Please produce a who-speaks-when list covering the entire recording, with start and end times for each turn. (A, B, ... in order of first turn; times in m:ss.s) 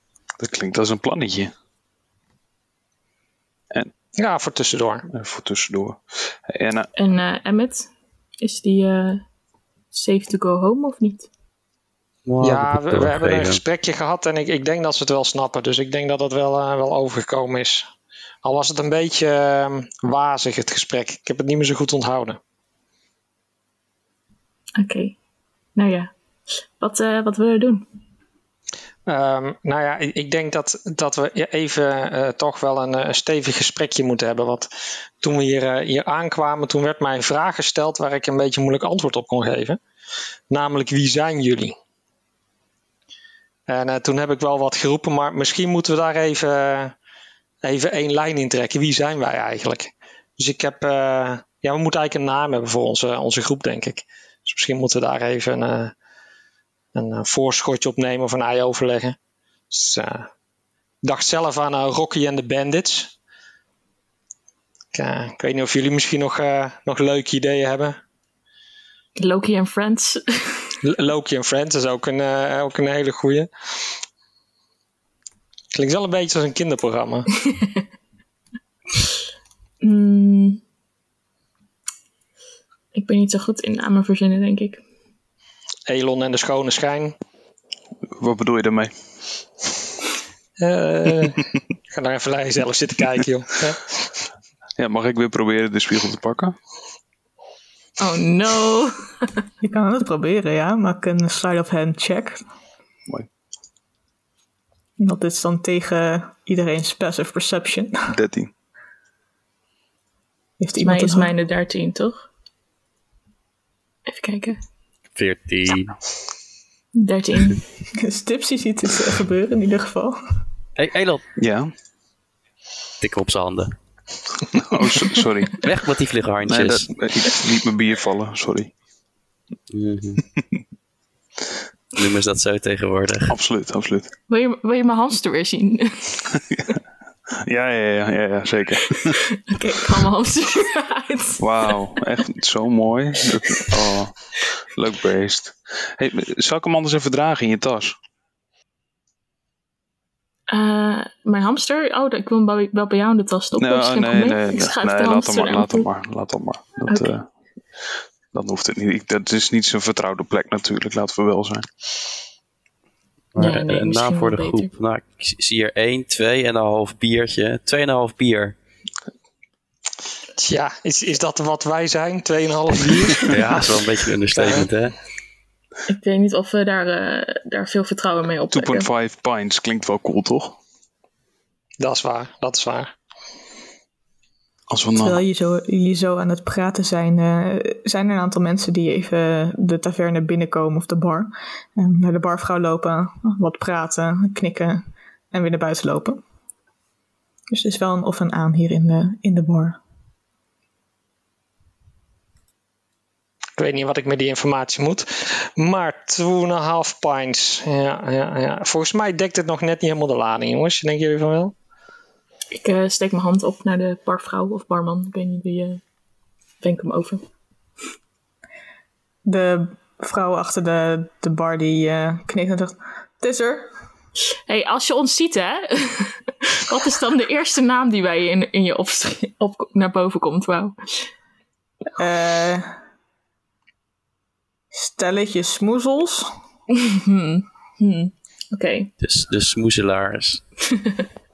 0:00.4-0:01.5 A
0:04.2-0:05.1 B
0:05.1-0:06.9 A
0:07.0-0:07.9 C
0:08.4-0:09.2 C
0:09.9-0:11.3 C
0:12.2-0:13.6 D
0:12.4-0:17.9 B
0:18.4-0:22.4 B
0:24.8-0:25.2 C
0:25.8-0:26.1 C
0:26.8-0:27.8 C
0:29.0-0:34.7 B
0:35.2-0:39.8 B
0:40.5-0:41.8 B
0:43.7-0:46.9 B
0:47.6-0:55.9 B
0:56.9-0:59.2 B
0:59.7-1:00.3 B
1:01.0-1:03.1 B
1:04.9-1:08.0 B
1:09.2-1:10.8 C
1:10.8-1:13.5 B
1:15.7-1:17.3 B
1:17.4-1:17.8 C
1:19.8-1:20.6 C
1:22.9-1:24.8 C
1:25.9-1:27.2 B
1:28.1-1:28.9 A
1:30.6-1:33.9 B
1:34.8-1:36.6 A
1:38.0-1:39.4 C
1:39.6-1:42.4 E
1:45.0-1:48.0 E
1:48.1-1:48.5 A
1:50.6-1:51.3 E
1:50.8-1:52.2 C
1:54.1-1:54.6 C
1:55.2-1:56.0 D
1:56.9-1:57.6 C
1:57.9-2:00.2 E
2:00.8-2:01.2 D
2:01.4-2:01.7 A
2:03.0-2:03.7 D
2:04.5-2:05.6 A
2:05.6-2:06.9 D
2:06.5-2:08.7 A
2:09.7-2:10.2 D
2:11.9-2:13.4 D
2:13.3-2:14.1 A
2:14.3-2:16.2 C
2:17.4-2:19.2 A
2:19.1-2:21.4 C
2:21.4-2:27.9 A
2:30.5-2:35.9 C
2:33.6-2:37.3 A
2:36.9-2:37.1 C
2:38.3-2:42.1 A
2:43.3-2:48.6 D
2:43.4-2:44.7 C
2:50.4-2:53.7 B
2:53.3-2:54.9 D
2:54.3-2:54.7 B
2:55.9-2:58.9 C
2:58.5-3:00.6 A
3:01.8-3:02.9 B
3:04.7-3:05.2 A
3:05.0-3:16.2 E
3:17.5-3:19.8 E
3:23.6-3:31.5 B
3:32.5-3:35.8 C
3:36.6-3:37.2 C
3:39.3-3:43.7 E
3:44.3-3:51.1 C
3:52.0-3:52.7 E
3:54.7-3:56.3 E
3:56.7-3:58.9 C
3:59.0-4:00.4 D
4:00.7-4:01.0 C